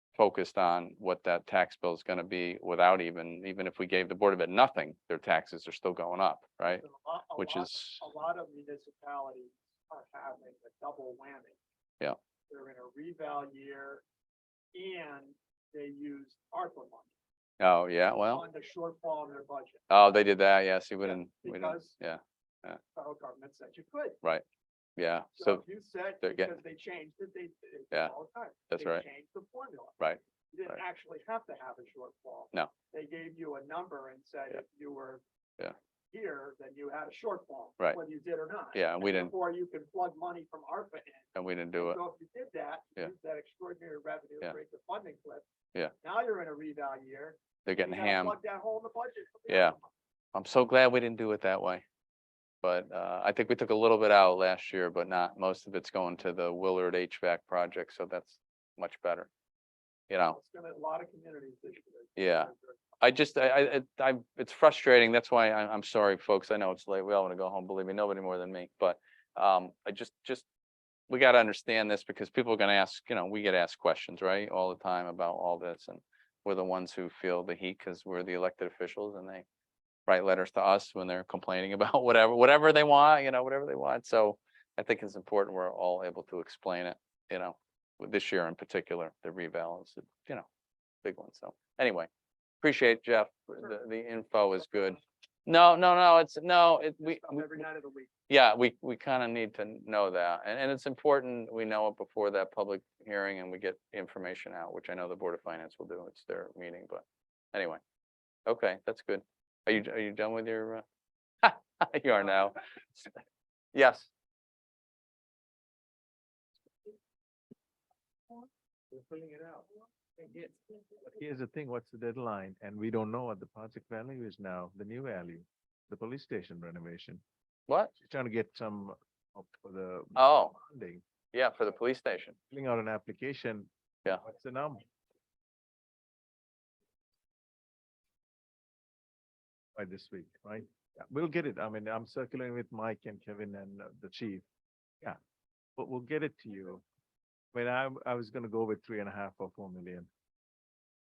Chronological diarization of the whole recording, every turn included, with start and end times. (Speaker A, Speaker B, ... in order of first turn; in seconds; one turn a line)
Speaker A: 0.2-6.8
Speaker B: 6.7-11.6
Speaker A: 7.4-8.1
Speaker B: 12.5-14.0
Speaker B: 14.7-17.1
Speaker A: 17.6-18.4
Speaker B: 18.3-19.8
Speaker A: 19.9-22.8
Speaker B: 21.0-22.0
Speaker B: 22.9-24.2
Speaker A: 25.0-25.6
Speaker B: 25.4-35.2
Speaker A: 26.2-26.6
Speaker A: 28.7-29.0
Speaker A: 30.0-30.8
Speaker B: 36.1-45.5
Speaker A: 38.7-39.3
Speaker A: 41.4-42.0
Speaker B: 46.0-49.9
Speaker A: 47.7-48.4
Speaker A: 49.5-49.8
Speaker A: 50.3-51.8
Speaker A: 52.6-59.3
Speaker A: 60.1-60.4
Speaker B: 60.3-62.9
Speaker A: 62.2-70.5
Speaker A: 71.1-79.5
Speaker A: 80.1-90.5
Speaker A: 91.0-92.1
Speaker A: 92.6-97.6
Speaker B: 94.8-95.0
Speaker B: 97.0-98.1
Speaker A: 98.3-107.8
Speaker A: 108.5-110.8
Speaker A: 111.4-113.1
Speaker A: 113.7-114.1
Speaker C: 121.0-127.2
Speaker C: 127.9-131.0
Speaker A: 130.2-130.6
Speaker A: 131.3-132.4
Speaker C: 132.5-134.9
Speaker C: 139.8-144.4
Speaker C: 145.8-146.8
Speaker C: 147.5-150.1